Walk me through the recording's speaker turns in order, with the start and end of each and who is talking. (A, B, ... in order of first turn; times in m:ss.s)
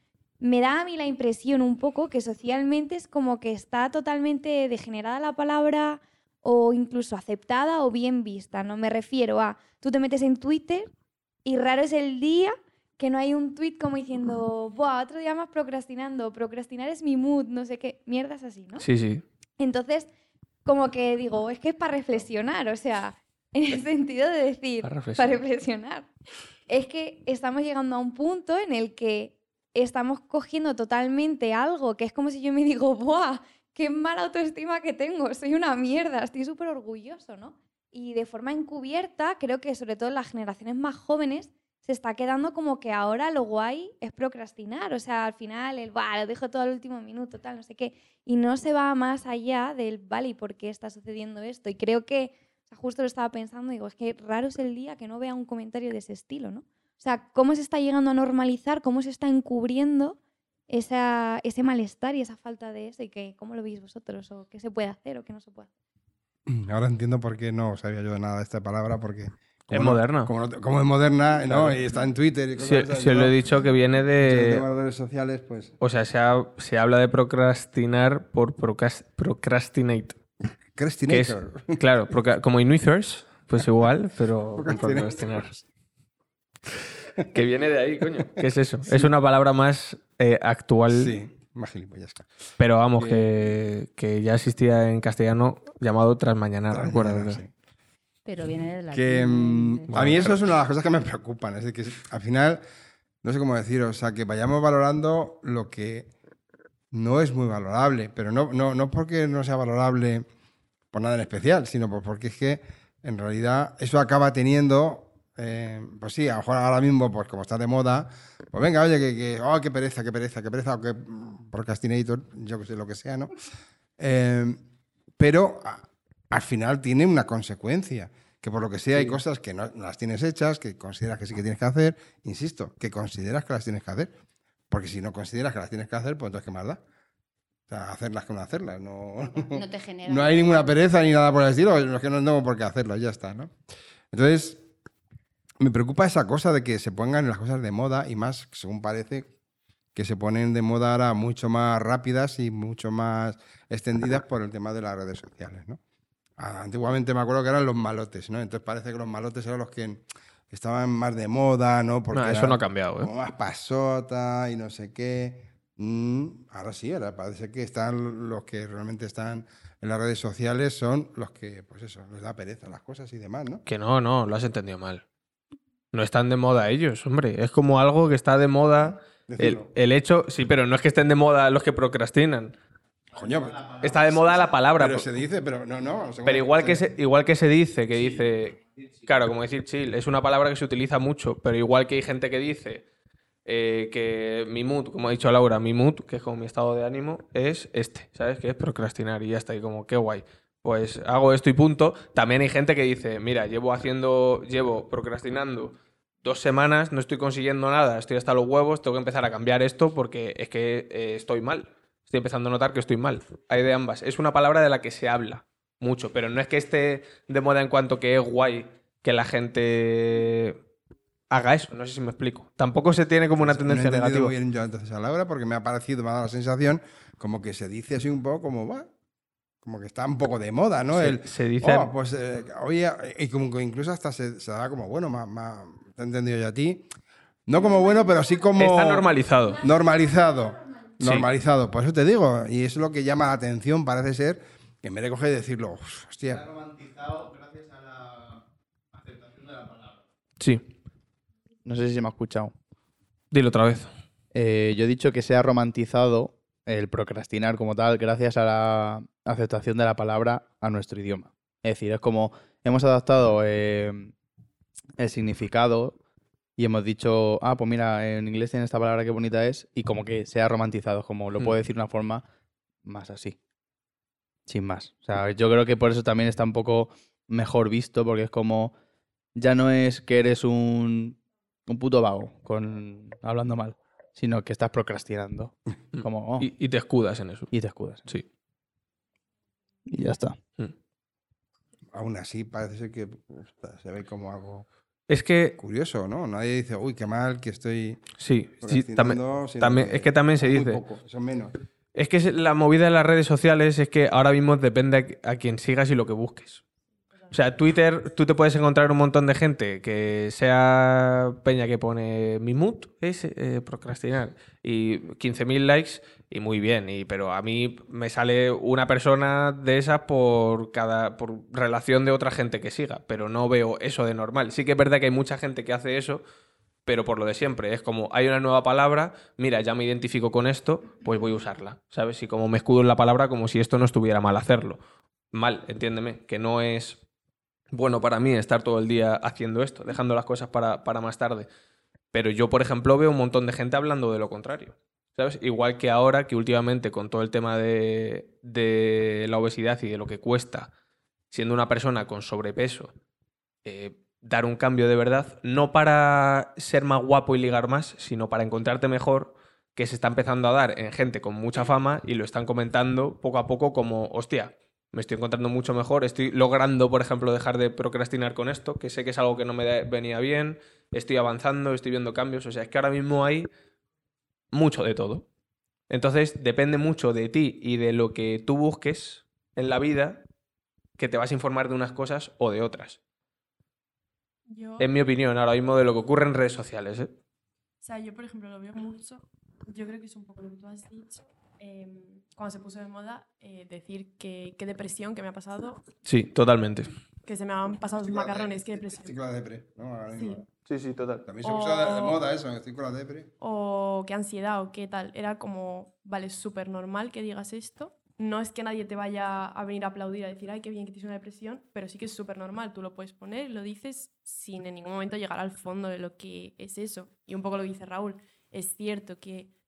0:00.4-0:10.9 A
0:11.4-0:18.9 A
0:18.8-0:19.2 B
0:19.6-0:20.1 A
0:20.6-0:26.1 A
0:24.8-0:25.4 B
0:26.7-1:00.2 A
1:00.7-1:05.7 A
1:06.5-1:13.6 C
1:09.7-1:10.3 B
1:11.4-1:11.8 B
1:12.6-1:14.6 B
1:14.2-1:15.7 C
1:15.8-1:20.2 B
1:20.8-1:21.8 C
1:21.1-1:25.5 B
1:24.6-1:25.5 C
1:27.3-1:31.1 B
1:30.9-1:32.3 C
1:32.6-1:37.4 B
1:33.0-1:33.4 C
1:36.7-1:37.5 C
1:38.2-1:40.0 D
1:38.9-1:42.6 C
1:39.9-1:40.4 B
1:43.2-1:46.1 C
1:46.9-1:50.3 C
1:50.9-2:03.3 C
2:04.0-2:04.6 C
2:05.2-2:14.2 C
2:14.7-2:16.8 C
2:17.7-2:23.5 C
2:19.4-2:20.8 D
2:24.1-2:24.7 C
2:25.6-2:29.3 C
2:30.0-2:35.8 C
2:36.4-2:53.6 C
2:42.1-2:43.1 B
2:53.7-2:55.0 B
2:55.9-3:02.6 B
2:58.7-2:59.7 C
3:03.1-3:06.8 C
3:03.8-3:05.1 B
3:06.2-3:12.8 B
3:13.5-3:40.6 B
3:41.3-3:44.4 B
3:43.4-3:48.9 C
3:49.6-3:56.9 C
3:50.9-3:51.9 B
3:57.5-4:06.5 C
3:58.6-3:59.6 B
4:01.0-4:01.3 B
4:06.6-4:08.4 E
4:09.0-4:09.9 E
4:10.4-4:10.7 B
4:11.6-4:12.5 E
4:13.3-4:13.9 B
4:14.3-4:24.1 E
4:25.0-4:26.0 E
4:26.6-4:32.2 E
4:32.8-4:33.4 E
4:34.5-4:38.8 E
4:39.4-4:46.5 E
4:45.9-4:47.5 B
4:47.5-4:48.1 E
4:49.9-4:50.4 E
4:51.9-4:54.7 C
4:55.1-4:55.6 B
4:55.6-4:58.0 C
4:58.2-5:00.8 B
4:58.6-5:01.5 C
5:02.0-5:06.6 B
5:07.3-5:26.2 B
5:26.9-5:34.8 B
5:35.3-5:37.0 B
5:37.7-5:41.5 B
5:42.1-5:50.7 B
5:51.3-5:52.9 B
5:53.6-6:13.5 B
6:14.5-6:15.3 B
6:15.9-6:20.2 B
6:21.0-6:23.0 B
6:24.5-6:24.9 F
6:24.8-6:27.1 B
6:27.8-6:35.8 F
6:36.0-6:36.9 B
6:37.2-6:39.2 F
6:38.0-6:40.5 C
6:40.2-6:40.4 F
6:40.7-6:41.2 B
6:41.3-6:43.3 C
6:41.4-6:42.2 F
6:43.4-6:59.5 F